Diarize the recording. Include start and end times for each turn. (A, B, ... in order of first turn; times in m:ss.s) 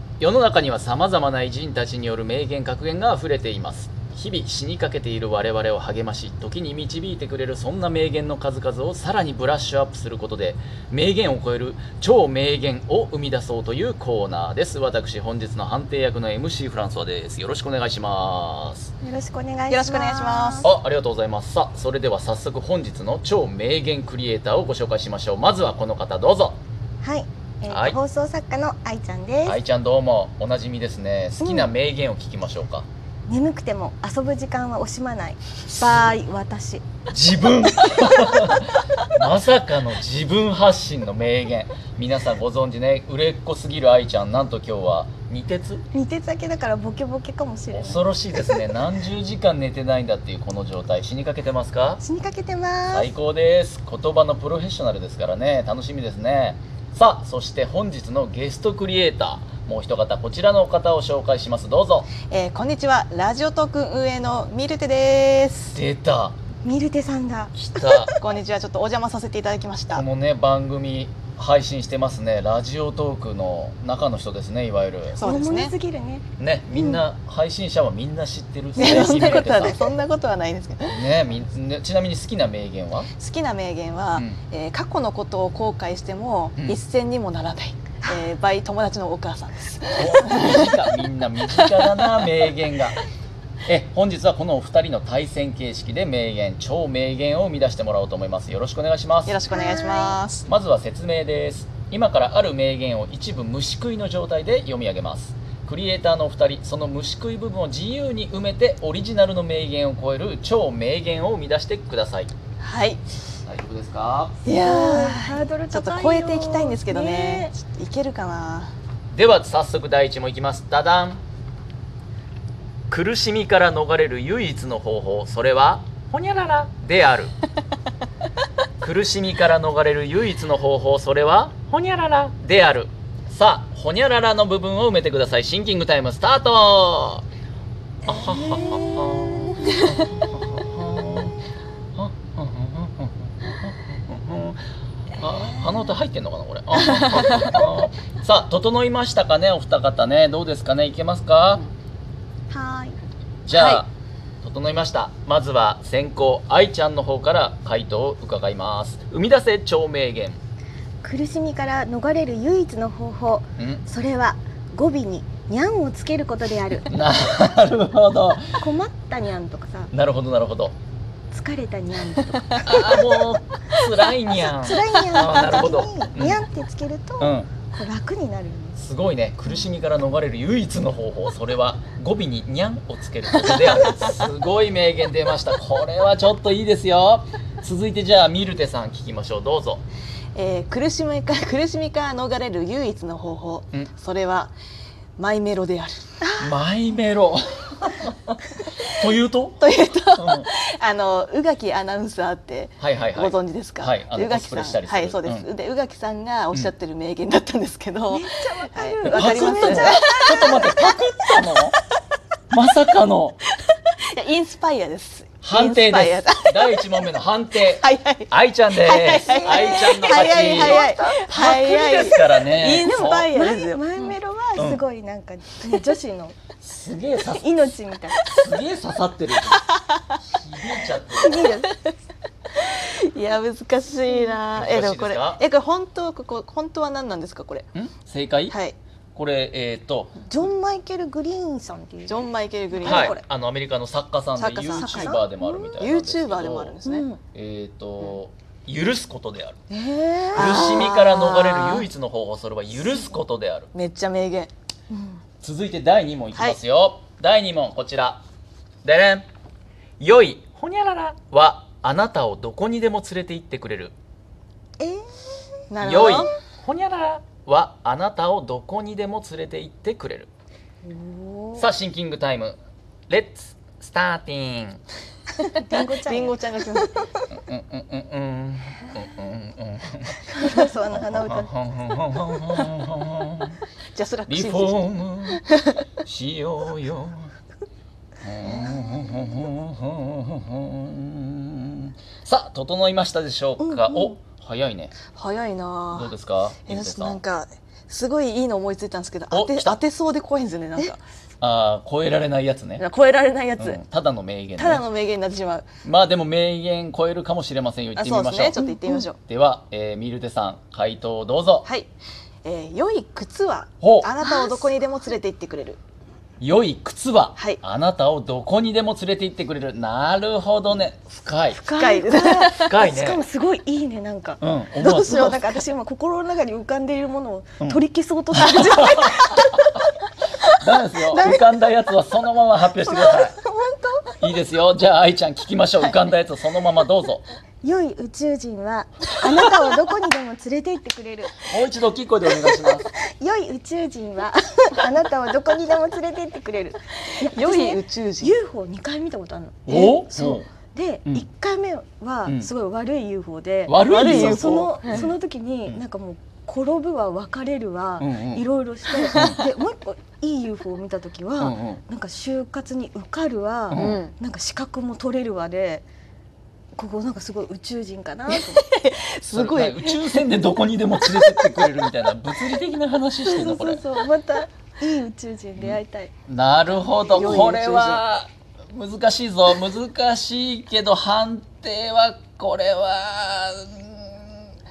0:00.2-0:18.9 A
0:19.0-0:20.7 B
0:19.7-0:20.7 C
0:20.6-0:26.6 A
0:27.0-0:29.6 B
0:27.7-0:28.0 A
0:29.4-0:32.9 A
0:31.4-0:31.7 B
0:33.3-0:36.8 B
0:37.1-0:45.8 A
0:45.9-0:48.6 B
0:47.7-0:52.0 A
0:52.0-0:53.1 B
0:52.9-1:02.1 A
1:02.3-1:05.8 C
1:05.7-1:06.4 A
1:06.6-1:08.2 B
1:07.6-1:08.1 A
1:08.2-1:10.0 C
1:09.9-1:15.2 A
1:15.2-1:17.0 B
1:15.2-1:15.7 C
1:16.4-1:19.8 A
1:18.8-1:21.1 C
1:20.8-1:23.1 A
1:23.2-1:30.8 C
1:29.9-1:33.0 A
1:33.7-1:39.4 A
1:39.3-1:40.5 C
1:39.5-1:40.2 B
1:40.5-1:52.3 A
1:52.6-1:53.0 C
1:53.4-1:54.4 A
1:54.4-1:58.7 C
1:54.5-1:57.5 B
1:59.1-2:01.2 A
2:02.9-2:07.3 A
2:08.8-2:17.2 A
2:18.0-2:21.4 A
2:18.2-2:19.2 B
2:22.0-2:24.6 A
2:25.2-2:31.6 A
2:27.0-2:27.5 C
2:32.5-2:33.0 B
2:33.4-2:33.9 A
2:33.5-2:33.8 C
2:34.4-2:40.4 A
2:41.0-2:46.9 B
2:46.9-2:48.6 A
2:48.6-2:49.9 B
2:49.9-2:50.8 A
2:51.3-2:53.0 B
2:52.6-2:56.4 A
2:54.3-2:58.8 B
2:57.2-2:57.5 A
2:58.8-3:09.8 A
3:10.4-3:14.5 C
3:15.2-3:16.1 C
3:16.2-3:16.5 B
3:16.4-3:19.6 A
3:19.6-3:30.7 C
3:20.2-3:20.5 A
3:22.8-3:25.5 A
3:28.1-3:30.9 B
3:29.0-3:31.8 A
3:32.5-3:33.4 A
3:33.7-3:36.8 C
3:35.4-3:43.3 A
3:37.8-3:44.1 C
3:39.1-3:41.9 B
3:43.3-3:46.4 B
3:44.6-3:44.8 A
3:46.6-3:51.7 A
3:47.3-3:48.4 B
3:51.1-3:51.7 B
3:52.5-3:57.7 C
3:54.5-3:55.4 A
3:57.7-3:58.6 A
3:58.5-3:58.8 C
3:59.2-4:00.2 A
4:00.3-4:03.2 B
4:02.1-4:03.2 C
4:02.8-4:06.8 A
4:04.4-4:05.2 C
4:04.6-4:05.8 B
4:05.8-4:07.1 C
4:06.8-4:07.2 B
4:07.3-4:09.6 A
4:09.7-4:10.9 B
4:10.3-4:11.9 C
4:10.4-4:13.7 A
4:13.7-4:14.5 C
4:14.9-4:15.2 B
4:15.4-4:18.2 A
4:18.8-4:19.3 A
4:20.0-4:24.0 A
4:25.7-4:26.3 C
4:25.8-4:30.3 A
4:30.8-4:31.7 B
4:31.6-4:32.6 A
4:33.1-4:34.8 A
4:35.4-4:36.8 B
4:35.7-4:37.0 C
4:37.3-4:40.2 A
4:40.3-4:41.5 B
4:41.0-4:43.6 A
4:43.9-4:45.8 C
4:44.3-4:45.4 A
4:46.0-4:47.3 A
4:48.2-4:54.9 A
4:53.6-4:54.2 B
4:55.1-4:56.1 C
4:55.9-4:57.2 A
4:56.7-5:01.0 C
4:59.3-4:59.8 A
5:01.4-5:02.8 A
5:02.8-5:03.8 C
5:03.6-5:04.8 A
5:04.6-5:05.7 C
5:05.8-5:08.6 A
5:08.0-5:09.2 C
5:08.6-5:09.1 B
5:09.2-5:11.7 A
5:11.6-5:11.9 C
5:12.4-5:15.8 C
5:13.8-5:14.1 A
5:14.2-5:14.7 B
5:16.4-5:21.6 A
5:17.4-5:17.6 C
5:21.5-5:29.8 B
5:21.7-5:22.8 C
5:22.5-5:23.2 A
5:24.4-5:25.4 A
5:28.3-5:29.3 A
5:30.5-5:33.4 A
5:31.0-5:31.4 B
5:32.8-5:34.1 B
5:34.2-5:37.2 A
5:37.6-5:41.5 B
5:41.4-5:42.9 A
5:42.9-6:05.9 B
5:47.1-5:48.4 C
5:49.7-5:50.5 A
5:53.7-5:55.8 A
5:53.9-5:55.0 C
5:58.0-5:58.4 A
5:59.0-5:59.4 C
5:59.1-5:59.4 A
6:01.4-6:01.8 A
6:03.7-6:04.0 A
6:03.7-6:04.1 C
6:06.8-6:08.6 B
6:08.3-6:10.2 C
6:09.3-6:13.8 A
6:11.0-6:11.8 C
6:13.2-6:16.1 B
6:15.6-6:24.3 A
6:17.1-6:18.0 C